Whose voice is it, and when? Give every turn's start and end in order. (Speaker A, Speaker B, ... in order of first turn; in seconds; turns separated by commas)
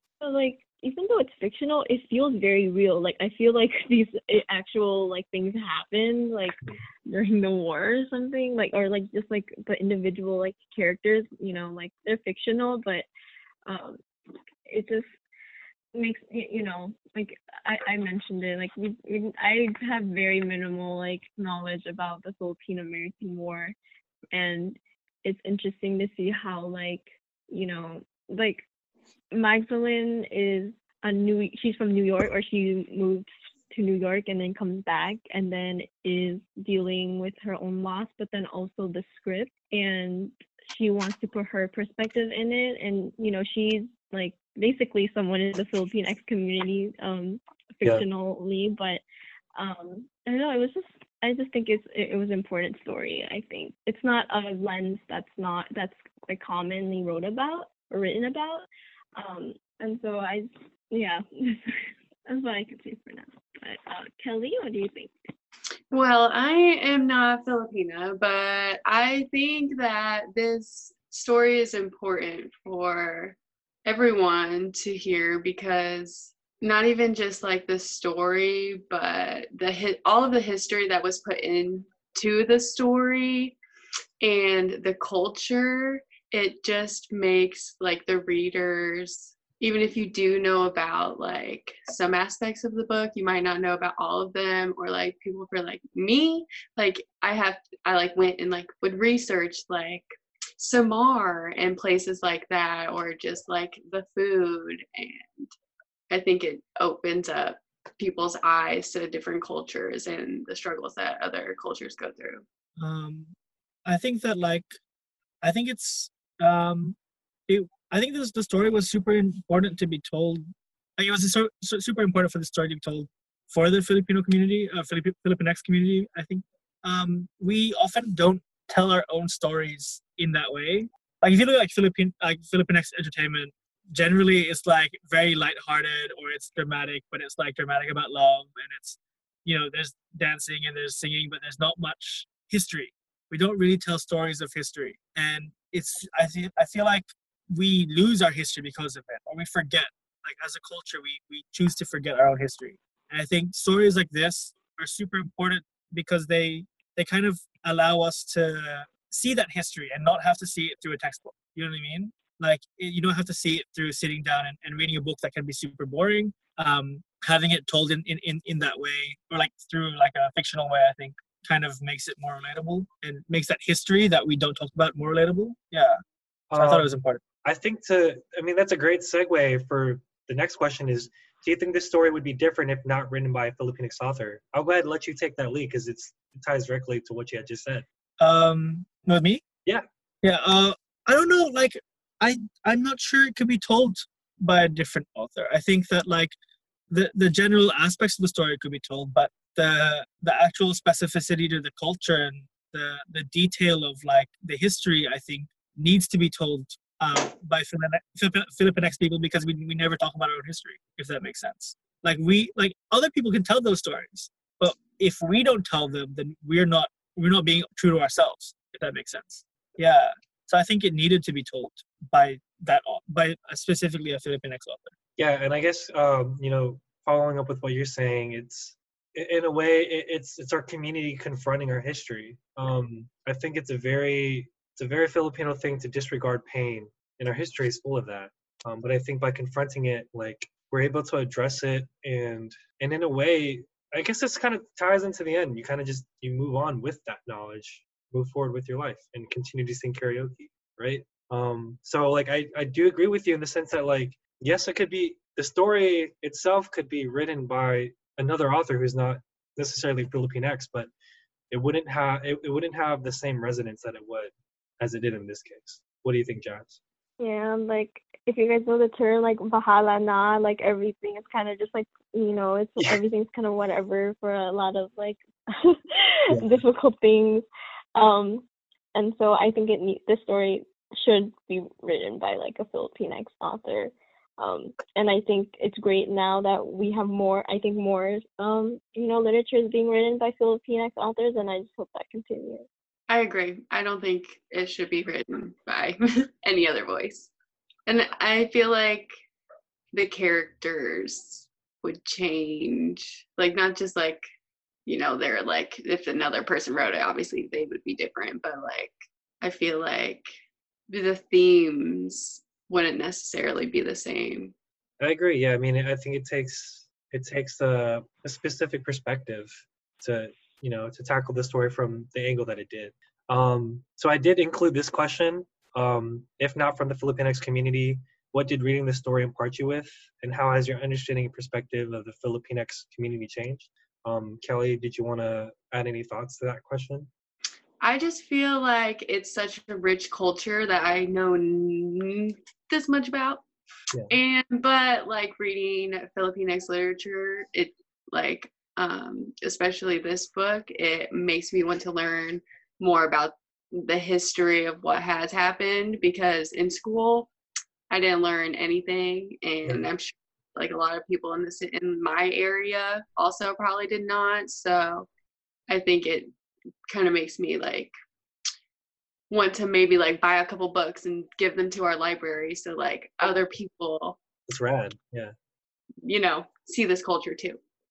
Speaker A: 0.2-13.1, Speaker A: 13.7-14.0, Speaker A: 14.7-15.1, Speaker A: 15.9-23.7, Speaker A: 24.3-28.6, Speaker A: 29.3-49.0, Speaker A: 49.5-61.8, Speaker A: 62.3-65.1, Speaker B: 65.9-83.6, Speaker B: 84.2-105.5, Speaker B: 106.1-112.4, Speaker C: 112.8-114.8, Speaker C: 115.4-117.0, Speaker C: 117.5-120.5, Speaker C: 121.0-176.0, Speaker D: 176.5-176.9, Speaker C: 176.6-177.2, Speaker D: 177.4-187.8, Speaker C: 188.2-189.4, Speaker C: 190.2-196.3, Speaker C: 196.9-224.9, Speaker D: 225.2-260.9, Speaker D: 261.5-266.8, Speaker A: 267.2-292.7, Speaker D: 276.3-276.6, Speaker B: 293.1-297.3, Speaker B: 297.9-299.1, Speaker B: 299.9-304.3, Speaker B: 304.9-310.3, Speaker B: 310.9-314.6, Speaker D: 315.0-337.1, Speaker B: 337.8-343.4, Speaker B: 344.1-357.3, Speaker B: 357.9-365.1, Speaker B: 365.7-366.3, Speaker B: 366.9-367.9, Speaker B: 369.3-374.2, Speaker D: 374.5-375.3, Speaker B: 376.1-377.6